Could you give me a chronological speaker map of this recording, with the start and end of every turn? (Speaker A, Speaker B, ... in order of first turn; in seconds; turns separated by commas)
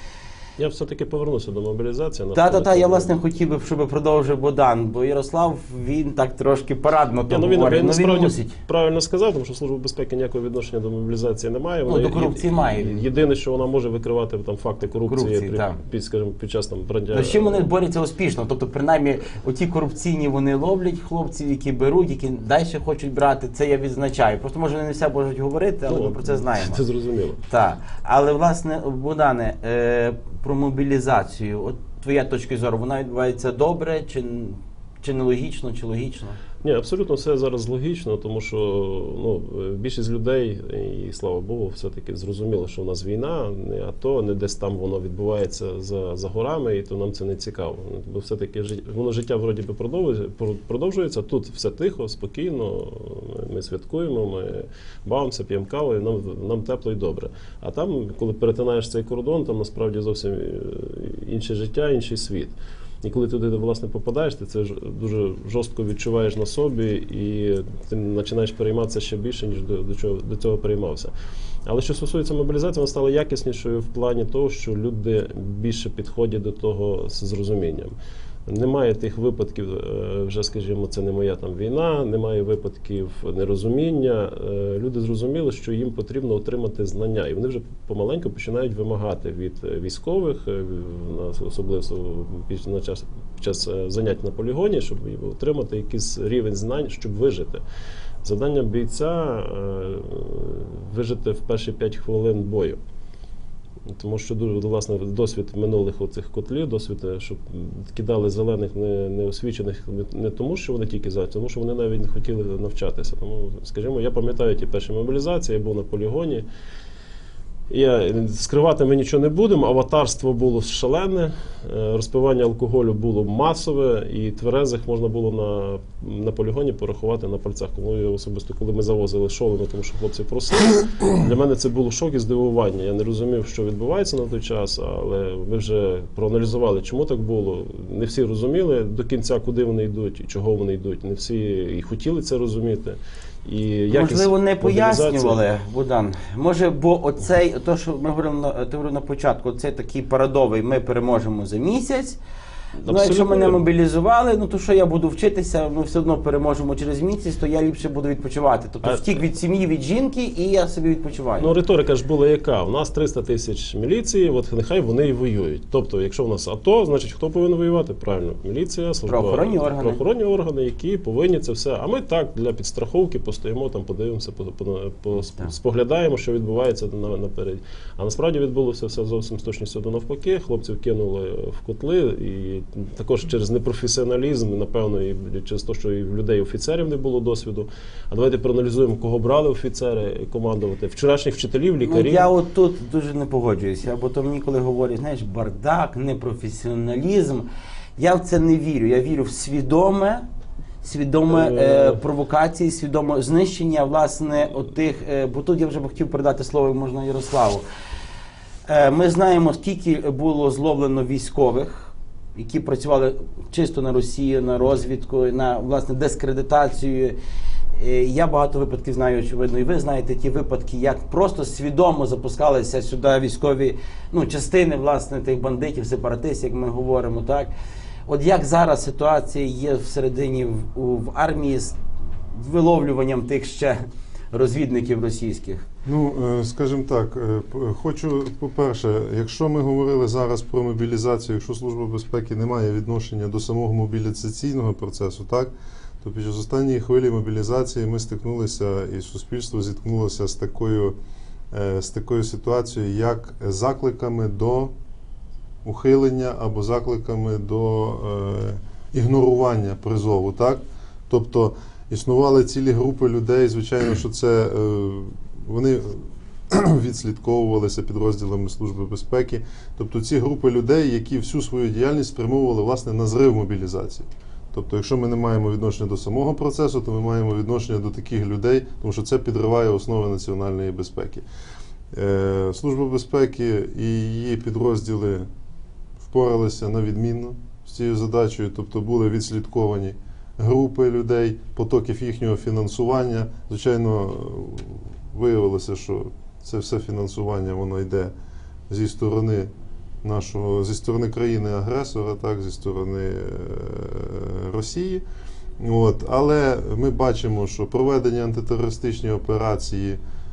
Speaker A: 0.6-3.1, Speaker B: 2.3-8.5, Speaker A: 7.3-17.7, Speaker B: 11.9-13.0, Speaker B: 15.1-15.8, Speaker B: 17.1-26.8, Speaker A: 25.9-27.4, Speaker B: 27.5-36.4, Speaker A: 36.6-71.1, Speaker A: 71.7-77.9, Speaker A: 78.5-97.6, Speaker A: 98.2-102.8, Speaker A: 103.9-116.5, Speaker A: 117.7-145.4, Speaker B: 143.9-152.2, Speaker A: 152.8-153.6, Speaker B: 152.9-161.5, Speaker A: 158.8-159.2, Speaker A: 161.4-192.3, Speaker B: 169.1-170.0, Speaker B: 191.8-200.2, Speaker B: 200.8-207.6, Speaker A: 201.3-202.0, Speaker B: 208.7-217.2, Speaker B: 217.7-227.5, Speaker B: 228.1-231.8, Speaker B: 232.3-233.8, Speaker B: 234.3-235.7, Speaker C: 235.8-250.9, Speaker C: 251.5-254.7, Speaker C: 255.6-281.2, Speaker C: 281.9-285.3, Speaker C: 286.0-298.1, Speaker C: 298.7-299.5, Speaker C: 300.0-305.0, Speaker C: 305.6-310.0